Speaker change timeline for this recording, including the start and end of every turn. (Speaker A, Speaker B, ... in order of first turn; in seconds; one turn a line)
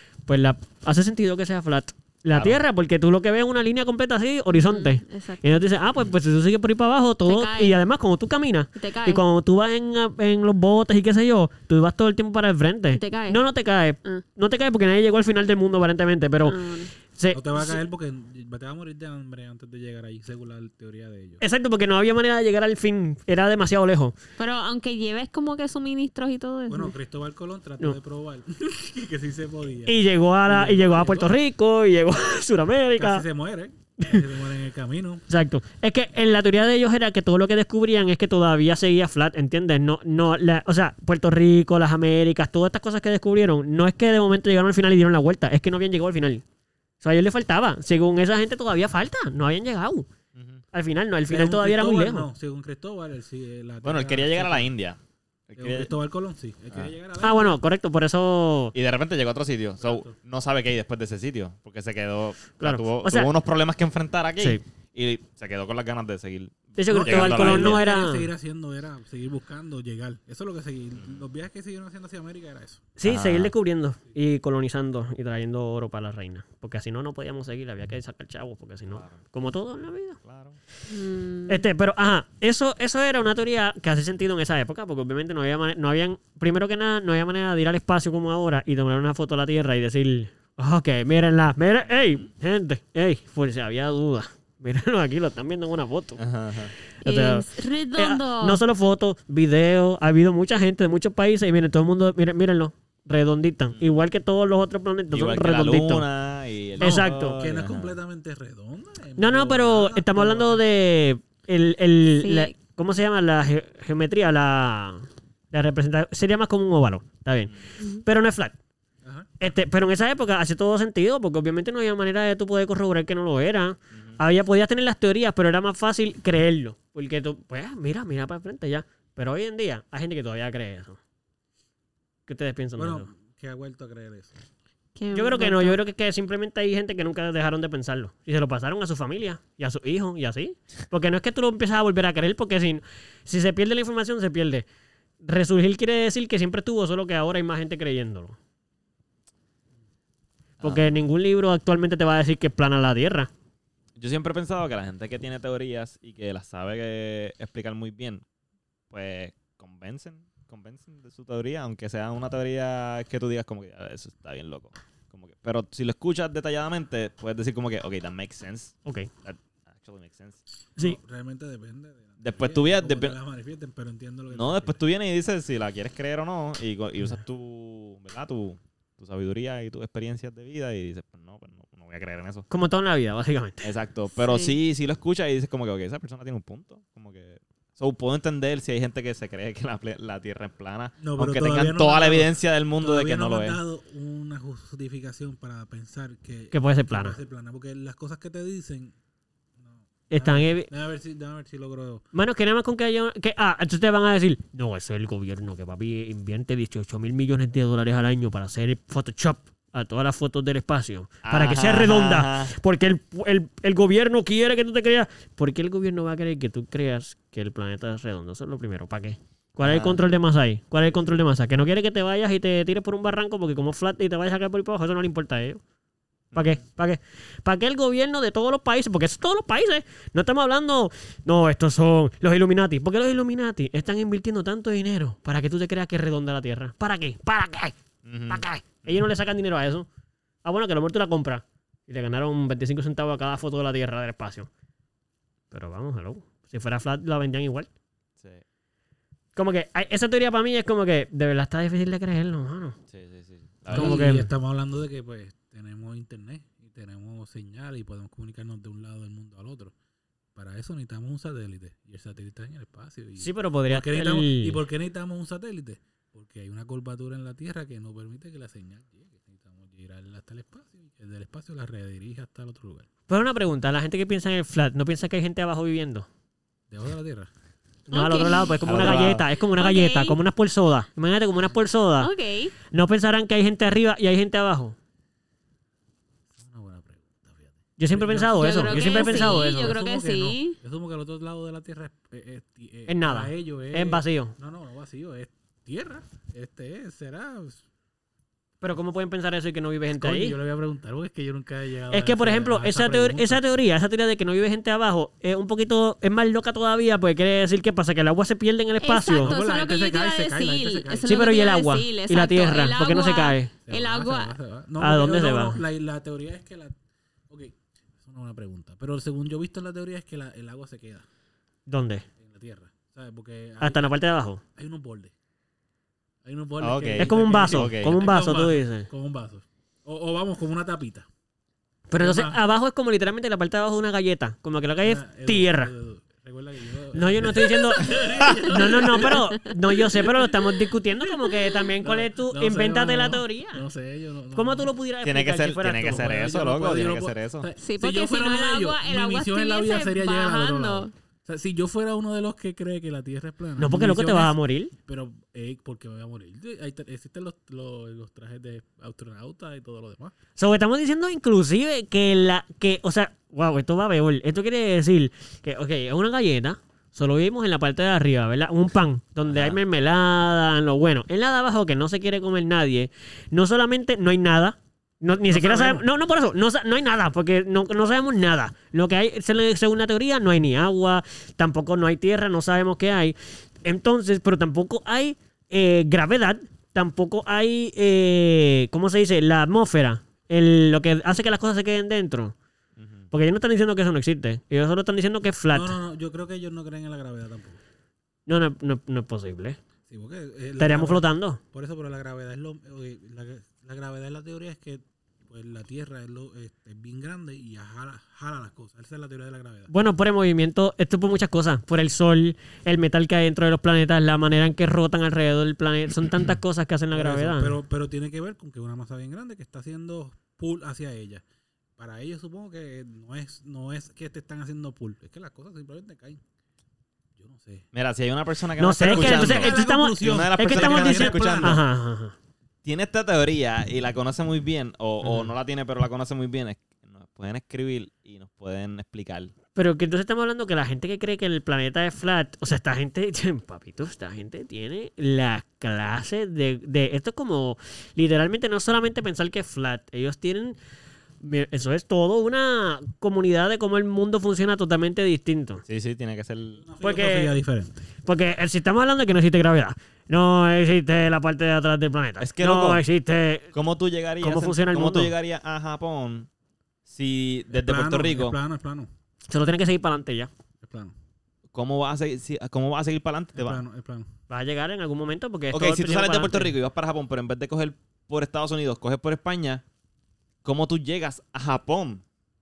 Speaker A: 0.3-17.8
Speaker B: 2.3-2.6
Speaker C: 4.5-5.7
Speaker C: 7.3-7.8
Speaker C: 8.8-9.2
Speaker C: 12.9-13.4
Speaker C: 16.4-16.9
Speaker D: 17.3-21.4
Speaker A: 21.4-24.1
Speaker C: 24.4-26.9
Speaker D: 26.7-31.3
Speaker A: 29.9-33.2
Speaker D: 33.0-35.2
Speaker A: 35.3-46.4
Speaker A: 47.0-50.1
Speaker B: 50.4-50.6
Speaker A: 50.7-52.3
Speaker D: 51.3-54.7
Speaker B: 53.8-55.9
Speaker D: 55.6-57.6
Speaker A: 57.2-58.8
Speaker B: 58.7-67.8
Speaker D: 59.8-60.1
Speaker A: 62.6-63.3
Speaker A: 66.8-68.3
Speaker D: 66.9-72.9
Speaker B: 71.0-71.2
Speaker A: 73.0-80.2
Speaker B: 73.0-73.5
Speaker B: 78.9-79.2
Speaker B: 80.2-80.6
Speaker C: 80.9-81.6
Speaker A: 81.5-96.2
Speaker B: 96.2-96.7
Speaker A: 97.0-106.1
Speaker C: 97.0-98.6
Speaker B: 103.7-104.0
Speaker B: 105.1-108.0
Speaker A: 106.8-107.3
Speaker D: 106.8-110.6
Speaker A: 109.2-118.5
Speaker C: 112.2-112.5
Speaker D: 119.0-119.3
Speaker A: 119.4-131.0
Speaker B: 123.9-124.2
Speaker A: 132.3-133.1
Speaker D: 132.8-134.3
Speaker C: 135.0-135.8
Speaker A: 135.1-144.7
Speaker A: 145.2-148.4
Speaker B: 150.6-150.9
Speaker A: 150.6-153.3
Speaker B: 154.0-158.2
Speaker B: 158.9-170.4
Speaker A: 168.8-169.1
Speaker D: 170.8-174.8
Speaker B: 172.2-173.2
Speaker B: 174.3-182.5
Speaker A: 182.5-183.7
Speaker B: 183.6-193.6
Speaker C: 184.2-184.6
Speaker D: 191.0-198.9
Speaker A: 196.5-197.2
Speaker D: 199.6-202.0
Speaker A: 200.1-200.7
Speaker A: 202.1-225.6
Speaker B: 211.2-212.5
Speaker B: 219.6-220.0
Speaker B: 226.3-226.6
Speaker A: 226.3-237.8
Speaker B: 238.1-239.0
Speaker A: 238.3-239.9
Speaker A: 240.4-244.5
Speaker A: 245.5-247.7
Speaker A: 249.4-252.8
Speaker B: 252.9-254.0
Speaker D: 253.7-259.7
Speaker A: 253.7-254.3
Speaker D: 260.4-272.9
Speaker A: 263.2-264.6
Speaker A: 273.1-276.1
Speaker D: 276.7-277.3
Speaker C: 277.9-279.1
Speaker A: 277.9-282.1
Speaker B: 278.6-279.3
Speaker C: 279.6-280.2
Speaker C: 282.0-282.5
Speaker A: 282.7-284.8
Speaker D: 286.3-297.6
Speaker A: 287.8-289.8
Speaker C: 288.4-290.6
Speaker A: 292.9-294.3
Speaker A: 298.6-300.4
Speaker D: 299.9-303.4
Speaker A: 301.9-309.3
Speaker C: 308.8-314.3
Speaker D: 309.1-311.2
Speaker A: 311.1-313.5
Speaker D: 313.7-316.8
Speaker A: 314.8-315.6
Speaker D: 317.3-321.1
Speaker A: 321.7-322.1
Speaker D: 322.2-323.9
Speaker A: 323.6-324.4
Speaker D: 324.6-325.1
Speaker D: 326.2-331.1
Speaker B: 326.6-328.0
Speaker A: 327.0-328.9
Speaker A: 331.9-335.7
Speaker D: 332.0-332.4
Speaker D: 334.8-339.3
Speaker A: 336.9-343.6
Speaker D: 341.8-344.7
Speaker A: 344.4-346.2
Speaker B: 345.0-347.5
Speaker D: 345.8-360.1
Speaker C: 347.6-350.9
Speaker A: 353.6-354.7
Speaker A: 360.4-392.4
Speaker B: 369.3-369.6
Speaker D: 375.3-375.9
Speaker B: 392.8-393.1
Speaker A: 393.1-395.8
Speaker D: 395.5-397.6
Speaker A: 398.3-399.6
Speaker D: 399.9-409.7
Speaker A: 400.6-401.4
Speaker A: 409.7-417.6
Speaker D: 416.9-421.2
Speaker D: 421.8-426.2
Speaker D: 427.2-427.7
Speaker B: 427.7-431.6
Speaker A: 428.6-432.1
Speaker D: 428.8-431.6
Speaker B: 432.6-439.3
Speaker A: 439.6-450.6
Speaker A: 451.2-455.6
Speaker B: 455.7-456.6
Speaker D: 456.6-457.9
Speaker A: 456.8-457.4
Speaker A: 458.1-463.5
Speaker B: 462.2-462.8
Speaker B: 463.5-466.3
Speaker A: 464.2-465.1
Speaker B: 466.9-468.4
Speaker D: 467.5-468.9
Speaker A: 469.3-470.3
Speaker D: 470.6-470.9
Speaker B: 471.5-473.6
Speaker D: 473.4-474.1
Speaker A: 474.3-476.5
Speaker B: 475.5-479.6
Speaker B: 480.4-482.0